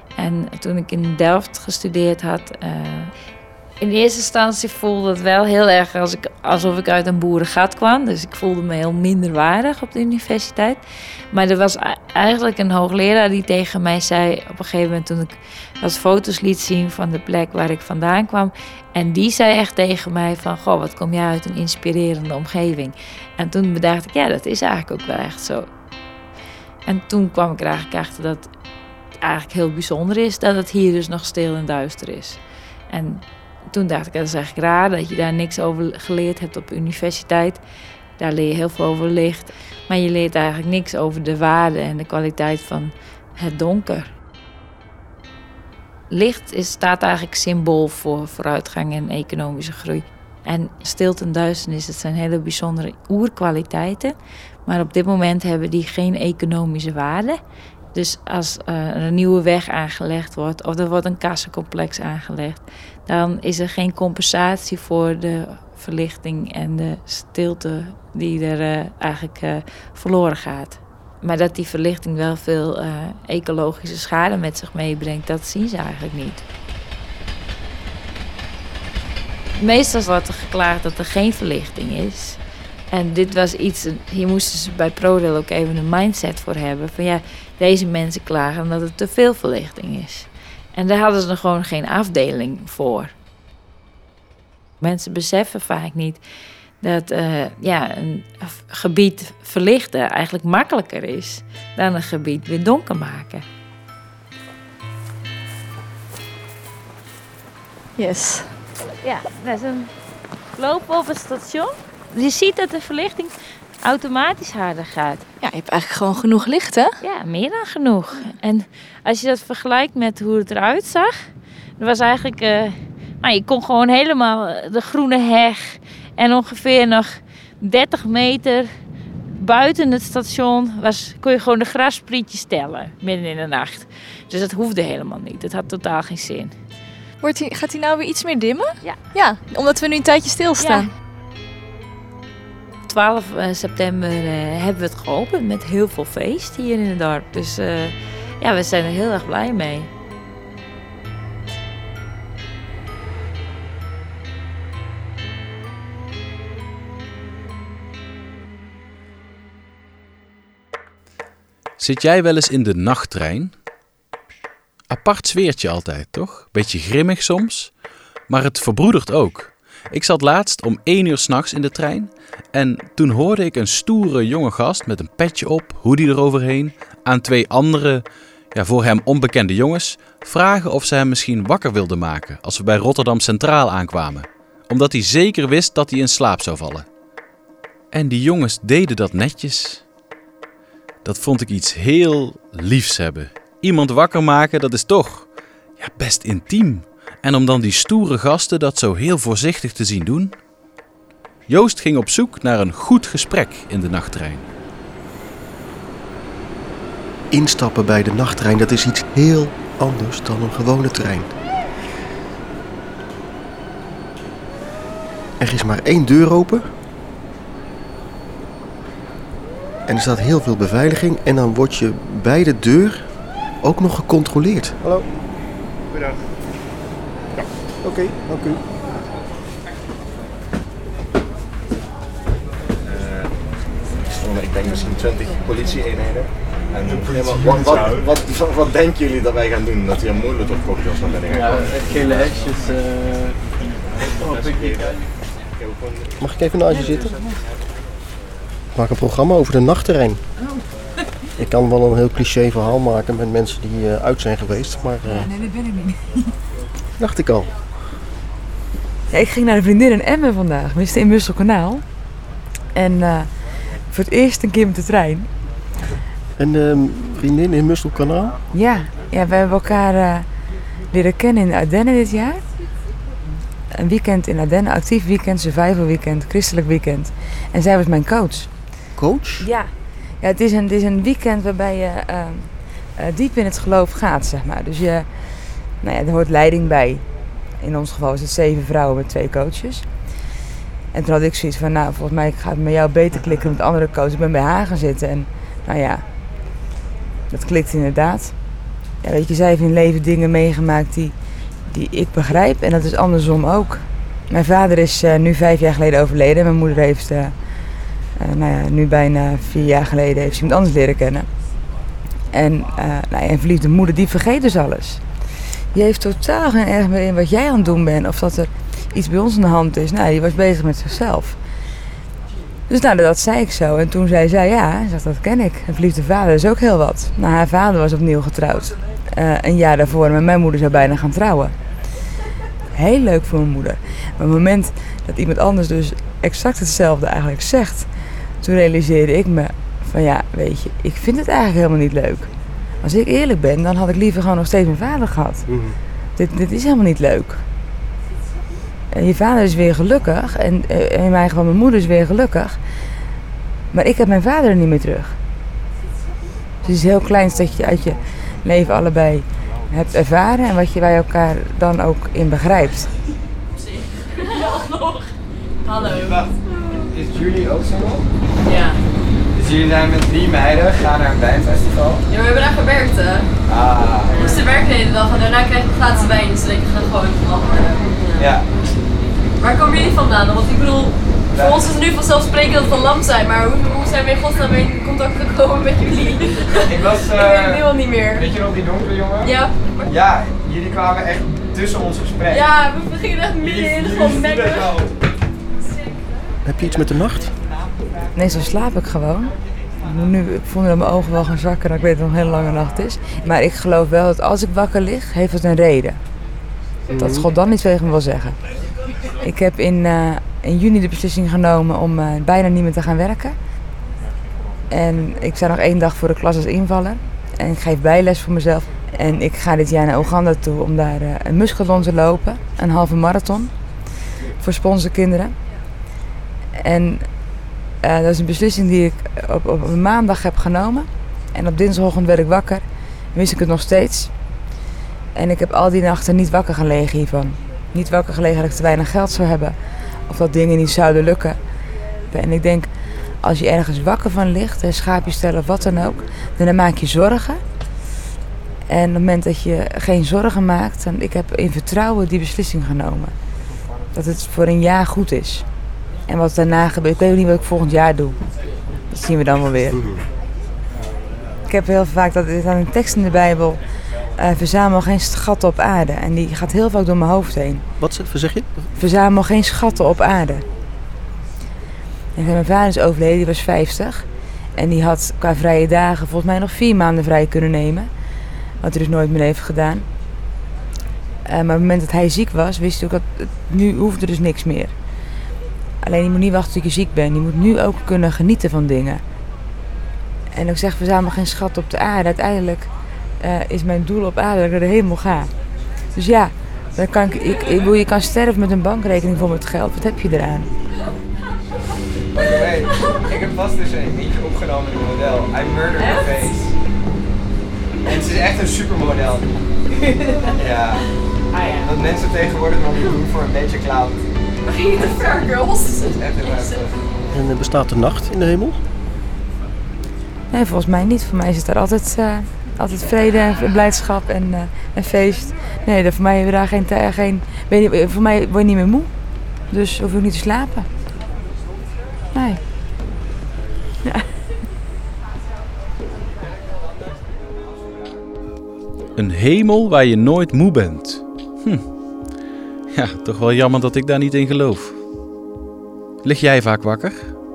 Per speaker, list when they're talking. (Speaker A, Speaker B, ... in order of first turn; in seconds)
Speaker A: 0.2-3.1, 3.8-25.7, 26.9-28.5, 29.2-32.4, 32.9-37.6, 38.2-44.1, 46.1-57.4, 57.9-76.4, 79.5-82.4, 82.9-93.1, 94.8-96.2, 96.8-103.4, 109.0-109.9, 110.5-115.2, 117.0-128.7, 129.3-136.5, 140.6-140.9, 142.9-149.9
Speaker B: 108.0-108.6, 115.4-117.0, 137.2-140.9
Speaker C: 161.8-163.5, 164.9-167.7, 168.3-186.8, 187.9-189.8, 191.0-195.3, 195.8-200.3, 201.5-204.4, 539.0-541.6, 542.7-544.8, 546.0-547.1
Speaker D: 207.3-211.3, 215.4-216.7, 219.9-225.0, 227.8-228.6, 246.2-247.2, 248.7-250.2, 251.4-255.3, 257.0-257.5, 266.4-268.4, 279.0-279.5, 345.5-345.8, 396.4-397.3, 406.9-407.3, 467.8-468.5, 517.1-518.6
Speaker E: 225.9-226.2, 232.9-233.3, 234.0-242.4, 244.2-244.9, 245.6-246.2
Speaker F: 259.1-261.8, 262.7-263.3, 263.9-265.3, 268.5-270.2, 270.9-272.4, 273.7-278.5, 279.4-279.7, 280.2-285.1, 285.8-287.0, 287.6-289.9, 290.9-296.0, 297.3-298.3, 299.0-301.1, 301.7-307.3, 308.2-311.3, 312.3-315.0, 315.7-321.4, 322.7-331.5, 332.7-337.9, 338.4-342.3, 342.8-345.4, 346.1-347.4, 348.9-352.6, 353.7-355.2, 356.6-362.9, 398.1-406.0, 406.9-408.4, 409.2-413.4, 414.7-423.5, 424.4-425.3, 426.6-427.1, 427.8-434.1, 435.1-439.6, 440.1-441.4, 442.1-442.7, 443.2-447.4, 448.7-453.1, 453.9-455.4, 456.1-458.2, 458.9-459.8, 461.5-463.6, 464.1-467.6, 468.8-470.4, 472.1-477.9, 478.6-479.9, 481.2-484.7, 485.8-489.0, 490.3-492.7, 493.2-495.3, 495.9-500.5, 520.3-528.9, 529.5-530.7, 532.1-532.4
Speaker G: 363.6-365.1, 365.6-366.3, 368.4-368.8, 372.1-373.3, 374.1-378.3, 379.4-388.3, 389.2-389.9, 392.3-394.8, 505.8-506.2, 509.9-510.3, 514.5-516.7
Speaker H: 365.9-366.3, 366.9-368.1, 369.3-372.0, 373.5-374.4, 378.2-378.5, 381.3-381.7, 386.6-392.5, 393.3-394.9, 502.1-506.5, 507.8-509.3, 510.4-510.8, 511.6-514.0, 515.9-516.7